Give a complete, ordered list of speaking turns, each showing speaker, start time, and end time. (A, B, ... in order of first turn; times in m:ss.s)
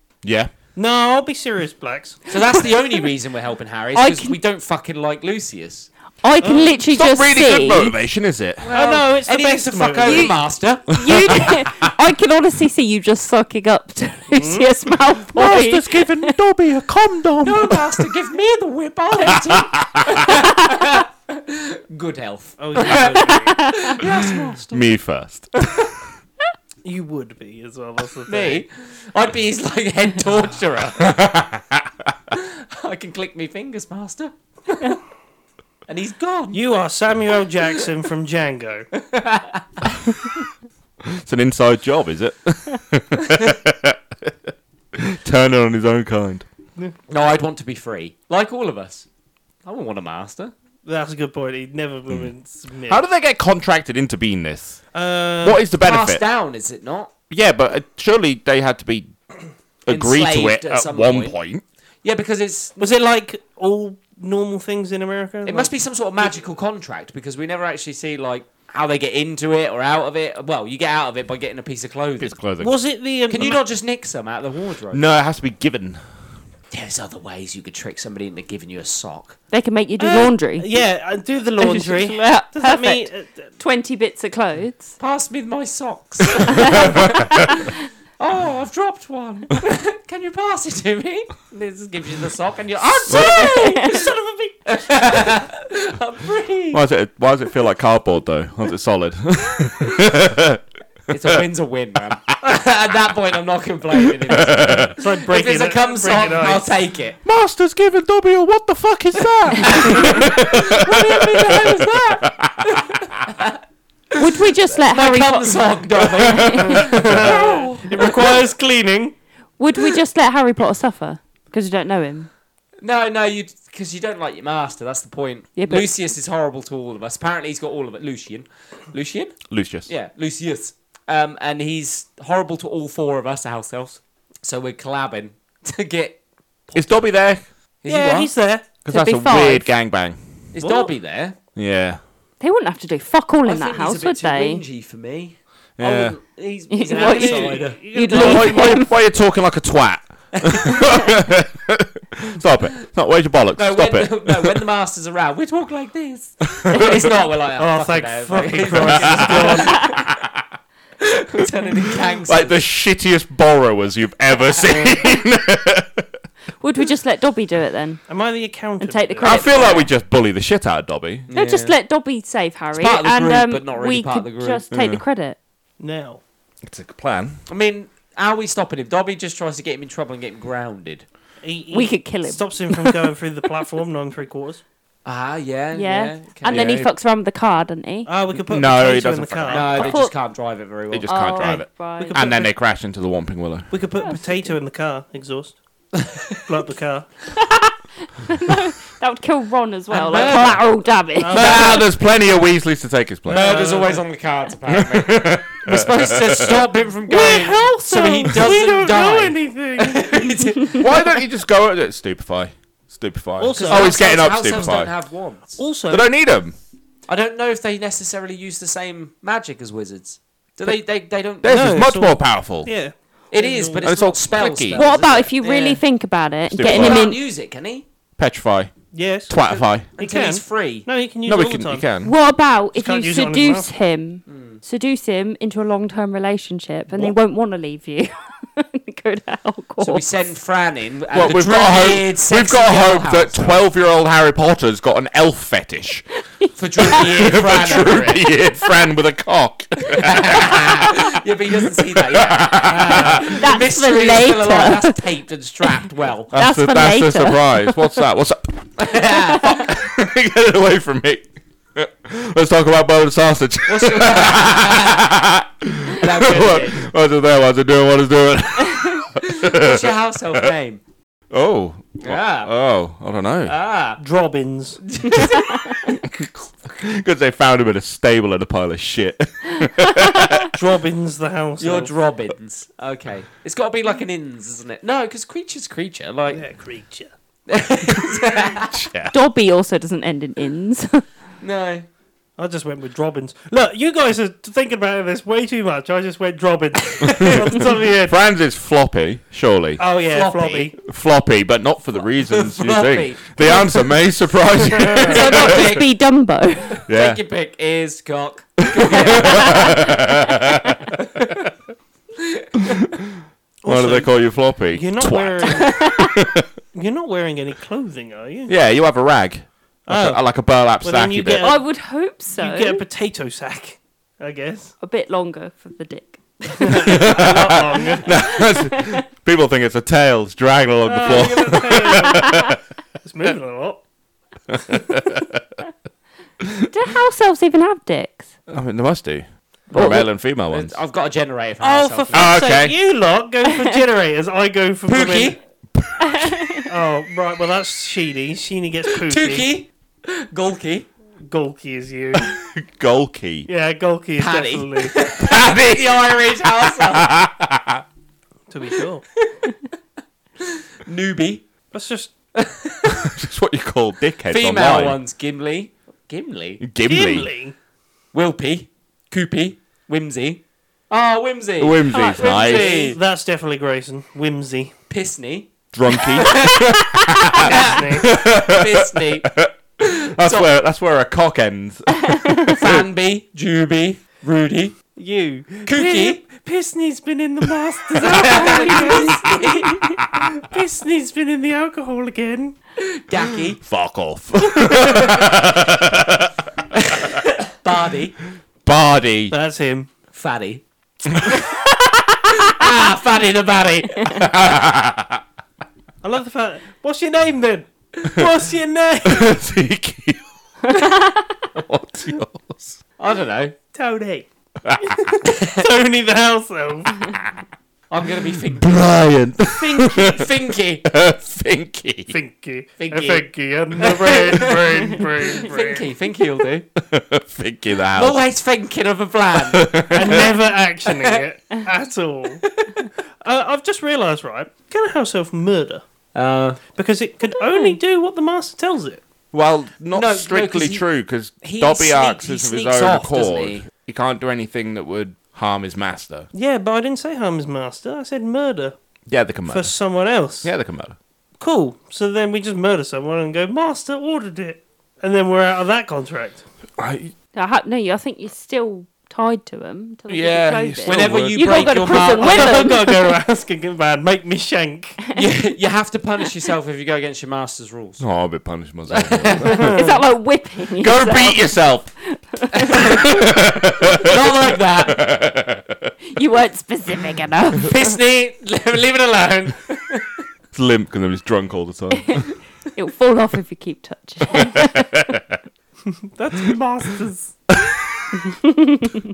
0:00.2-0:00.5 A
0:00.7-0:02.2 B
0:02.3-0:05.9 C
0:03.9-0:04.3 D
0:06.2-0:07.9 D
0:06.4-0:06.8 B
0:06.9-0:08.7 A
0:08.6-0:11.6 C
0:08.7-0:10.4 B
0:10.0-0:10.4 D
0:10.9-0:16.4 D
0:11.0-0:11.6 A
0:14.3-0:14.7 B
0:15.3-0:18.0 A
0:17.4-0:24.6 C
0:19.2-0:20.4 A
0:22.6-0:24.9 B
0:23.2-0:23.9 D
0:24.7-0:25.5 A
0:25.6-0:25.9 C
0:26.8-0:28.6 B
0:28.3-0:31.3 C
0:31.0-0:31.8 A
0:32.3-0:35.0 C
0:35.9-0:36.8 C
0:36.5-0:38.9 B
0:38.9-0:39.6 C
0:41.1-0:46.4 A
0:47.1-0:49.1 C
0:49.6-0:50.5 C
0:50.8-0:53.0 B
0:52.9-0:54.8 A
0:54.9-0:55.6 B
0:55.4-0:56.2 A
0:55.8-0:57.1 C
0:57.3-0:59.1 A
0:59.8-1:01.6 A
0:59.9-1:01.4 C
1:02.0-1:02.8 C
1:02.8-1:06.5 B
1:05.4-1:12.3 C
1:12.2-1:12.7 A
1:12.6-1:13.6 B
1:13.3-1:15.0 C
1:14.9-1:16.0 A
1:16.7-1:19.4 C
1:19.5-1:20.7 D
1:20.0-1:23.5 B
1:21.6-1:24.9 D
1:25.0-1:34.1 C
1:26.5-1:27.2 D
1:26.6-1:27.4 A
1:33.1-1:33.6 A
1:33.1-1:35.2 B
1:33.2-1:34.0 D
1:34.6-1:36.8 C
1:36.7-1:40.6 A
1:41.1-1:47.2 C
1:44.0-1:44.9 A
1:45.0-1:46.7 B
1:47.2-1:53.2 A
1:49.5-1:50.9 C
1:49.6-1:52.2 B
1:52.6-1:53.6 C
1:54.1-1:56.9 D
1:54.7-1:58.4 C
1:56.0-1:57.4 A
1:56.8-1:59.1 B
1:59.6-2:02.3 D
2:02.8-2:17.0 C
2:05.6-2:05.9 D
2:09.5-2:09.9 A
2:16.7-2:17.4 A
2:17.8-2:18.3 C
2:17.8-2:18.7 B
2:18.8-2:20.9 A
2:18.9-2:19.7 D
2:20.5-2:21.4 C
2:21.6-2:22.0 A
2:22.4-2:24.6 D
2:23.4-2:28.3 C
2:25.8-2:26.2 A
2:26.7-2:29.0 D
2:26.9-2:28.7 B
2:28.1-2:34.6 A
2:33.6-2:40.0 C
2:36.6-2:37.1 A
2:37.6-2:40.0 B
2:38.7-2:40.3 A
2:41.0-2:42.6 C
2:42.3-2:46.1 A
2:46.6-2:48.0 D
2:48.1-2:49.8 B
2:48.8-2:49.9 D
2:49.2-2:51.3 A
2:51.3-2:51.7 C
2:51.3-2:55.4 D
2:52.7-2:54.6 C
2:54.7-2:55.0 A
2:55.8-2:56.2 B
2:56.6-2:57.4 A
2:57.5-3:01.0 C
3:01.4-3:04.6 B
3:01.7-3:03.0 D
3:05.0-3:06.9 C
3:05.7-3:08.1 D
3:06.4-3:06.9 A
3:08.0-3:09.9 B
3:08.5-3:09.9 A
3:09.5-3:11.2 C
3:09.8-3:10.1 D
3:10.9-3:13.7 A
3:11.1-3:12.2 D
3:11.4-3:12.5 B
3:13.7-3:15.6 B
3:14.0-3:14.5 D
3:16.0-3:16.4 C
3:16.4-3:17.1 B
3:17.3-3:21.7 D
3:19.9-3:20.6 C
3:21.2-3:21.9 B
3:21.3-3:23.5 A
3:23.3-3:24.0 B
3:23.3-3:30.8 C
3:24.7-3:26.7 A
3:27.1-3:30.7 B
3:30.8-3:34.9 A
3:33.4-3:34.7 B
3:33.5-3:35.6 C
3:35.6-3:36.1 B
3:35.9-3:36.6 A
3:37.1-3:41.8 C
3:41.4-3:42.7 A
3:41.4-3:43.9 B
3:43.3-3:45.8 C
3:43.8-3:44.8 A
3:44.7-3:47.2 D
3:46.5-3:47.1 A
3:46.6-3:47.8 C
3:48.2-3:48.7 A
3:48.9-3:51.9 B
3:49.3-3:49.9 A
3:50.0-3:50.9 C
3:51.2-3:52.1 A
3:52.0-4:00.0 D
3:52.7-3:53.7 B
3:54.2-3:54.6 C
3:59.8-4:03.6 C
4:01.1-4:06.0 A
4:06.4-4:07.0 D
4:06.6-4:08.3 C
4:06.8-4:11.2 A
4:09.9-4:16.3 C
4:11.8-4:13.2 A
4:13.2-4:15.0 D
4:16.3-4:30.5 A
4:16.3-4:18.0 D
4:18.8-4:19.7 C
4:23.7-4:25.0 C
4:25.9-4:26.9 C
4:29.2-4:30.8 C
4:31.3-4:33.5 A
4:32.0-4:32.5 C
4:33.4-4:34.0 C
4:34.0-4:34.8 B
4:34.8-4:35.7 C
4:35.3-4:36.0 D
4:36.1-4:40.5 A
4:40.5-4:41.9 B
4:41.6-4:46.4 C
4:46.3-4:47.1 B
4:47.5-4:48.8 C
4:48.7-4:49.1 A
4:49.1-4:51.0 D
4:51.4-4:51.9 C
4:52.4-4:58.2 B
4:57.0-4:57.5 C
4:57.2-4:59.8 A
4:59.8-5:00.8 B
5:00.0-5:00.7 C
5:00.8-5:05.8 A
5:02.2-5:03.6 C
5:04.6-5:05.3 B
5:05.0-5:05.9 C
5:05.0-5:06.8 D
5:06.7-5:10.0 C
5:06.9-5:07.2 A
5:08.7-5:10.9 A
5:09.2-5:09.8 D
5:11.0-5:11.5 C
5:12.2-5:12.6 C
5:13.6-5:15.9 B
5:13.6-5:16.5 A
5:15.5-5:16.1 D
5:16.7-5:18.5 B
5:18.5-5:21.4 A
5:19.9-5:20.2 B
5:20.8-5:21.6 B
5:21.4-5:22.8 D
5:22.3-5:24.7 B
5:24.8-5:27.0 D
5:26.6-5:28.1 B
5:26.8-5:32.6 A
5:28.1-5:29.0 D
5:30.8-5:33.8 B
5:34.5-5:35.4 A
5:36.6-5:38.3 D
5:38.5-5:40.8 A
5:39.7-5:40.0 D
5:40.5-5:42.4 C
5:41.6-5:45.4 B
5:42.1-5:42.8 A
5:43.5-5:43.7 D
5:44.9-5:45.4 C
5:45.7-5:46.4 A
5:46.0-5:46.7 D
5:46.7-5:49.5 B
5:49.0-5:50.9 C
5:51.2-5:52.4 B
5:52.3-5:53.5 A
5:53.5-5:55.0 B
5:54.2-5:57.1 C
5:55.2-5:57.8 A
5:58.5-5:59.0 B
5:59.2-5:59.5 C
6:00.4-6:01.4 C
6:01.7-6:02.1 B
6:02.3-6:03.1 C
6:02.9-6:05.0 A
6:04.3-6:06.6 C
6:06.6-6:07.3 A
6:06.8-6:07.5 B
6:08.1-6:13.0 C
6:11.6-6:12.8 A
6:11.9-6:12.9 D
6:12.3-6:14.7 B
6:14.9-6:15.5 C
6:15.7-6:22.9 A
6:16.1-6:16.8 C
6:17.3-6:18.1 B
6:17.3-6:19.3 C
6:20.2-6:20.5 C
6:22.5-6:24.8 C
6:25.0-6:32.6 B
6:25.6-6:26.2 C
6:28.0-6:29.8 C
6:28.2-6:29.1 D
6:32.8-6:33.6 C
6:33.6-6:36.5 A
6:36.8-6:38.2 C
6:38.6-6:39.3 A
6:39.3-6:39.9 B
6:40.1-6:40.6 C
6:41.2-6:44.4 C
6:44.2-6:45.2 A
6:46.0-6:49.4 B
6:49.0-6:50.2 A
6:50.7-6:51.2 D
6:51.5-6:52.8 A
6:53.0-6:53.6 C
6:53.7-6:54.3 B
6:54.6-6:55.1 A
6:54.9-6:57.2 B
6:57.9-6:58.8 C
6:58.5-7:02.2 A
6:59.6-7:00.2 B
6:59.9-7:00.8 C
7:02.1-7:05.9 B
7:02.8-7:03.2 C
7:03.8-7:06.6 C
7:06.8-7:08.2 A
7:07.9-7:10.2 C
7:09.4-7:10.4 A
7:09.9-7:12.4 B
7:10.8-7:11.2 C
7:12.4-7:12.9 C
7:13.2-7:15.8 B
7:16.1-7:16.6 C
7:16.7-7:19.0 B
7:17.5-7:17.8 D
7:19.3-7:26.3 A
7:19.9-7:20.8 C
7:21.4-7:23.7 C
7:26.3-7:28.8 B
7:29.1-7:29.7 A
7:29.5-7:30.5 B
7:30.4-7:31.0 A
7:31.4-7:36.4 B
7:36.8-7:37.1 A
7:37.3-7:43.2 D
7:40.1-7:42.0 A
7:40.8-7:42.7 C
7:42.0-7:45.0 B
7:45.1-7:48.0 C
7:48.0-7:49.8 A
7:48.9-7:49.8 C
7:49.4-7:50.0 B
7:49.5-7:51.6 D
7:50.8-7:51.9 A
7:52.1-7:53.1 D
7:52.6-7:53.1 C
7:52.7-7:55.9 A
7:53.8-7:55.0 C
7:56.1-7:57.9 D
7:57.6-8:00.2 C
8:00.5-8:02.3 A
8:02.0-8:04.9 D
8:04.3-8:05.2 A
8:05.9-8:07.3 B
8:07.6-8:08.0 A
8:08.3-8:09.0 D